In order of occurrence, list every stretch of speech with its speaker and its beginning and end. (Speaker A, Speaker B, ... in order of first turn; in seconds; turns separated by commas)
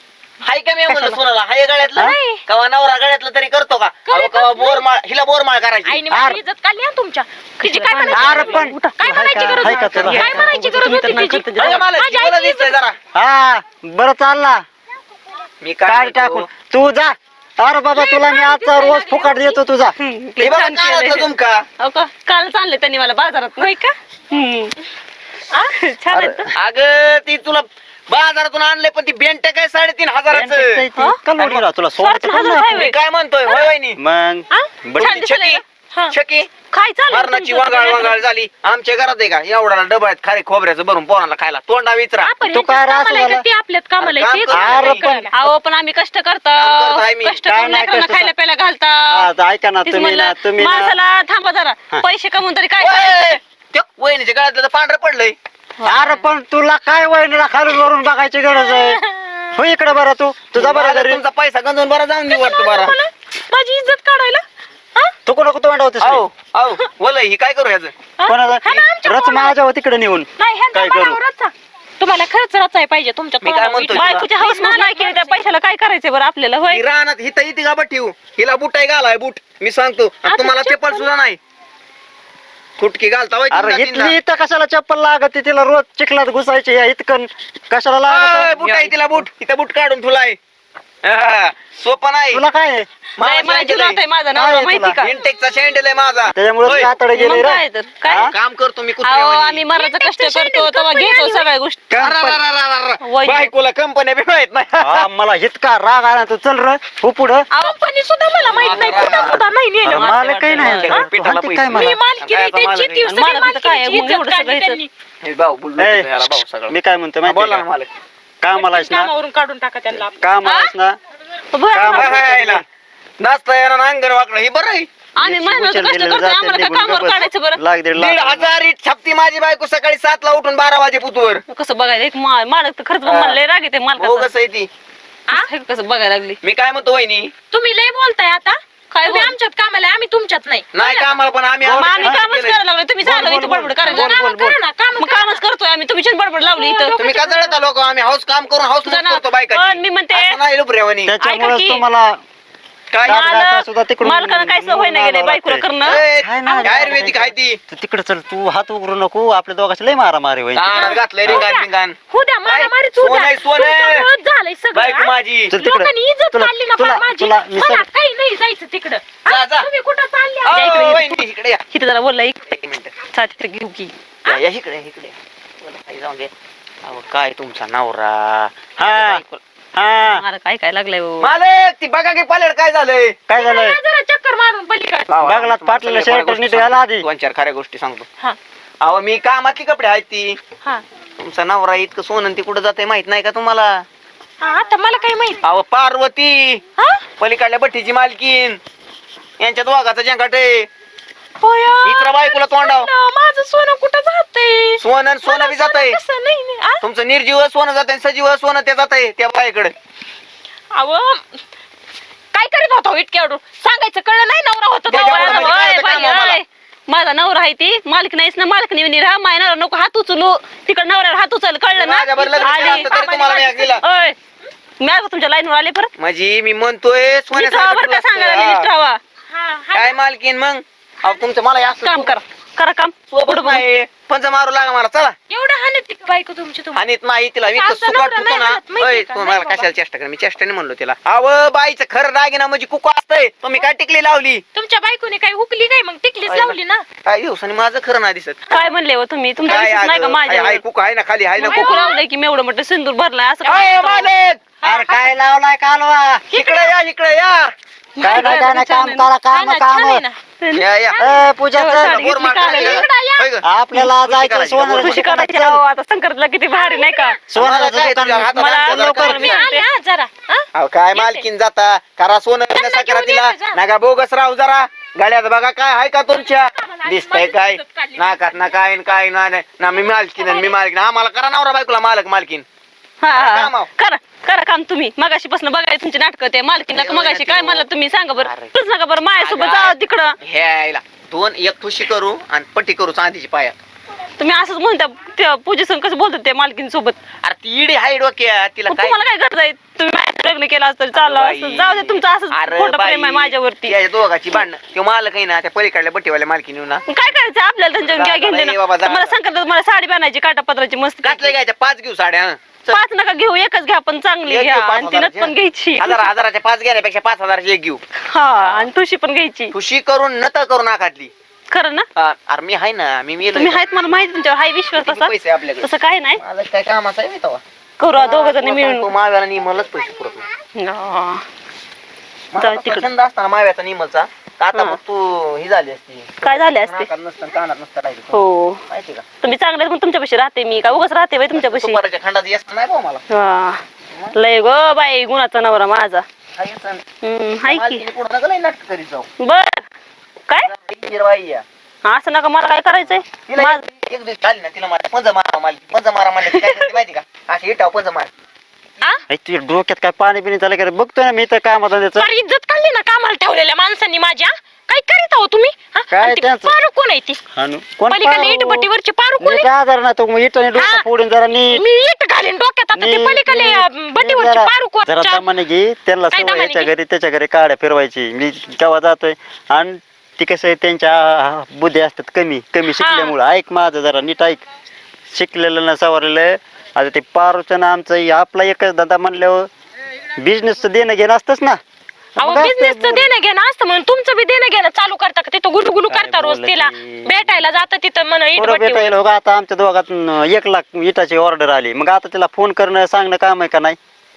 Speaker A: 0.4-6.0, Speaker B: 0.9-1.2, Speaker C: 2.0-2.4, Speaker C: 4.0-4.8, Speaker C: 5.8-12.8, Speaker B: 6.1-6.4, Speaker D: 7.6-11.8, Speaker B: 8.1-10.6, Speaker A: 11.6-12.9, Speaker B: 13.1-14.6, Speaker A: 15.6-16.5, Speaker B: 15.8-19.9, Speaker C: 17.9-19.6, Speaker D: 20.0-21.3, Speaker A: 20.4-21.6, Speaker D: 21.8-23.7, Speaker C: 23.6-23.9, Speaker D: 24.3-24.8, Speaker D: 25.8-26.4, Speaker B: 26.1-26.5, Speaker A: 26.5-30.8, Speaker B: 30.3-32.8, Speaker A: 31.4-31.6, Speaker D: 32.0-33.0, Speaker A: 32.7-34.0, Speaker B: 34.0-35.2, Speaker A: 35.0-36.5, Speaker D: 35.0-35.6, Speaker D: 36.7-38.2, Speaker A: 37.1-42.3, Speaker C: 42.2-45.3, Speaker B: 42.5-43.4, Speaker A: 44.0-45.0, Speaker B: 44.5-45.3, Speaker D: 45.1-49.3, Speaker A: 46.5-47.4, Speaker B: 47.5-48.3, Speaker B: 49.1-51.0, Speaker D: 49.8-53.4, Speaker A: 52.8-55.3, Speaker D: 55.8-56.2, Speaker B: 55.8-59.0, Speaker C: 58.5-59.6, Speaker B: 59.5-61.2, Speaker A: 60.5-62.9, Speaker C: 62.3-64.4, Speaker B: 65.2-66.2, Speaker A: 66.0-67.9, Speaker C: 68.2-69.5, Speaker B: 68.3-71.2, Speaker C: 70.4-75.4, Speaker A: 73.4-74.2, Speaker D: 73.9-76.8, Speaker A: 76.7-81.4, Speaker C: 80.2-81.1, Speaker A: 82.8-84.2, Speaker B: 83.5-89.2, Speaker A: 88.1-90.4, Speaker A: 91.0-92.4, Speaker B: 92.3-92.9, Speaker A: 93.2-94.0, Speaker D: 93.2-95.1, Speaker B: 94.3-95.0, Speaker A: 95.0-96.9, Speaker B: 96.3-98.3, Speaker D: 97.1-98.3, Speaker A: 98.1-99.7, Speaker D: 99.0-102.0, Speaker C: 99.7-101.5, Speaker B: 101.9-102.4, Speaker A: 101.9-105.1, Speaker D: 103.0-103.5, Speaker B: 104.8-107.5, Speaker C: 107.5-110.2, Speaker A: 108.5-109.4, Speaker B: 109.8-112.0, Speaker D: 109.9-111.0, Speaker A: 110.5-113.1, Speaker C: 111.7-114.9, Speaker D: 113.0-114.8, Speaker A: 115.2-116.7, Speaker B: 115.8-117.6, Speaker A: 117.2-117.9, Speaker B: 118.4-119.1, Speaker C: 118.5-120.2, Speaker B: 120.0-121.0, Speaker D: 120.4-120.7, Speaker D: 121.5-122.2, Speaker B: 121.7-122.6, Speaker A: 121.9-122.6, Speaker A: 123.2-124.9, Speaker D: 125.2-127.6, Speaker B: 125.2-128.5, Speaker A: 127.9-131.4, Speaker D: 131.5-134.3, Speaker A: 133.0-133.4, Speaker A: 134.0-134.7, Speaker D: 135.3-136.4, Speaker A: 136.4-137.3, Speaker C: 137.5-141.1, Speaker D: 138.9-139.3, Speaker A: 140.7-142.6, Speaker B: 141.6-142.2, Speaker D: 141.7-144.1, Speaker B: 143.0-144.6, Speaker C: 143.9-145.4, Speaker D: 145.0-147.0, Speaker C: 146.5-147.6, Speaker A: 147.0-151.1, Speaker D: 148.8-150.4, Speaker B: 151.1-152.2, Speaker D: 151.2-151.8, Speaker A: 152.9-153.2, Speaker D: 153.0-156.9, Speaker B: 153.0-155.7, Speaker A: 155.8-157.6, Speaker B: 156.2-161.4, Speaker A: 160.5-164.1, Speaker C: 160.7-170.8, Speaker A: 164.7-165.5, Speaker B: 165.5-167.8, Speaker A: 169.3-169.7, Speaker A: 170.4-171.6, Speaker D: 170.5-172.5, Speaker A: 172.5-172.9, Speaker D: 173.0-173.9, Speaker A: 174.3-176.3, Speaker A: 176.8-179.4, Speaker B: 178.8-179.2, Speaker B: 179.7-180.2, Speaker D: 180.0-181.3, Speaker A: 181.2-183.2, Speaker B: 183.3-183.8, Speaker C: 183.3-185.1, Speaker A: 185.1-188.1, Speaker B: 185.2-187.1, Speaker A: 188.8-190.4, Speaker A: 191.2-193.8, Speaker C: 194.4-195.4, Speaker A: 195.4-196.6, Speaker C: 196.8-197.0, Speaker A: 197.2-198.6, Speaker A: 199.4-200.7, Speaker C: 201.4-206.8, Speaker A: 201.8-202.9, Speaker A: 204.8-206.0, Speaker A: 206.8-209.7, Speaker C: 210.7-211.4, Speaker C: 212.3-215.7, Speaker A: 214.9-216.4, Speaker D: 214.9-223.0, Speaker A: 221.7-223.8, Speaker C: 222.1-223.8, Speaker D: 223.8-224.2, Speaker D: 224.8-225.9, Speaker A: 226.0-228.7, Speaker D: 227.3-229.0, Speaker C: 229.3-230.0, Speaker A: 229.7-232.2, Speaker D: 231.8-233.6, Speaker A: 233.1-235.1, Speaker C: 235.3-236.8, Speaker A: 236.7-244.4, Speaker C: 237.4-239.7, Speaker C: 244.5-246.8, Speaker A: 247.0-248.4, Speaker D: 248.5-250.6, Speaker A: 249.4-252.0, Speaker D: 251.4-254.1, Speaker C: 251.4-252.0, Speaker A: 253.4-254.4, Speaker C: 254.6-255.1, Speaker B: 254.6-256.2, Speaker A: 256.3-257.5, Speaker C: 256.3-256.7, Speaker D: 258.0-259.1, Speaker C: 258.0-258.4, Speaker B: 258.0-260.0, Speaker C: 259.3-260.2, Speaker A: 260.5-261.0, Speaker C: 260.9-261.3, Speaker B: 261.0-262.0, Speaker D: 261.5-262.9, Speaker A: 261.6-265.0, Speaker C: 262.2-263.3, Speaker B: 263.4-265.6, Speaker D: 264.8-267.2, Speaker C: 266.5-267.2, Speaker B: 267.3-269.4, Speaker A: 267.3-269.4, Speaker D: 268.3-269.7, Speaker C: 269.0-271.2, Speaker A: 270.5-282.4, Speaker C: 272.5-273.6, Speaker C: 276.1-278.6, Speaker C: 279.8-280.6, Speaker D: 283.0-290.1, Speaker A: 283.1-283.7, Speaker A: 286.7-287.6, Speaker A: 288.2-288.5, Speaker A: 289.2-293.5, Speaker D: 294.2-297.0, Speaker A: 297.2-299.0, Speaker D: 298.7-303.8, Speaker A: 300.9-306.8, Speaker D: 306.9-311.3, Speaker A: 307.8-309.1, Speaker A: 311.0-312.8, Speaker D: 312.7-316.1, Speaker A: 314.2-317.8, Speaker D: 318.1-319.5, Speaker A: 318.4-318.7, Speaker A: 319.5-321.1, Speaker D: 321.5-321.8, Speaker A: 321.9-323.6, Speaker D: 323.3-326.2, Speaker A: 324.8-327.4, Speaker D: 327.8-328.9, Speaker A: 327.9-330.3, Speaker D: 330.6-331.2, Speaker A: 332.3-339.0, Speaker D: 332.4-332.9, Speaker D: 334.5-334.8, Speaker D: 336.2-336.9, Speaker D: 338.1-338.6, Speaker D: 339.2-341.8, Speaker A: 341.3-343.0, Speaker D: 343.1-343.6, Speaker D: 344.1-346.0, Speaker A: 346.4-346.8, Speaker D: 347.0-347.8, Speaker A: 347.4-349.1, Speaker D: 349.2-349.6, Speaker A: 350.4-351.4, Speaker D: 351.8-353.6, Speaker A: 353.3-358.1, Speaker B: 359.1-362.1, Speaker C: 361.9-367.2, Speaker B: 365.9-366.5, Speaker B: 367.3-368.7, Speaker C: 367.9-369.5, Speaker B: 369.2-371.6, Speaker C: 370.5-370.9, Speaker C: 371.5-375.2, Speaker B: 372.8-384.4, Speaker C: 376.1-376.7, Speaker C: 382.7-383.2, Speaker B: 385.1-389.5, Speaker B: 390.2-391.6, Speaker C: 392.2-398.9, Speaker B: 392.2-393.1, Speaker B: 395.9-397.4, Speaker B: 398.4-403.8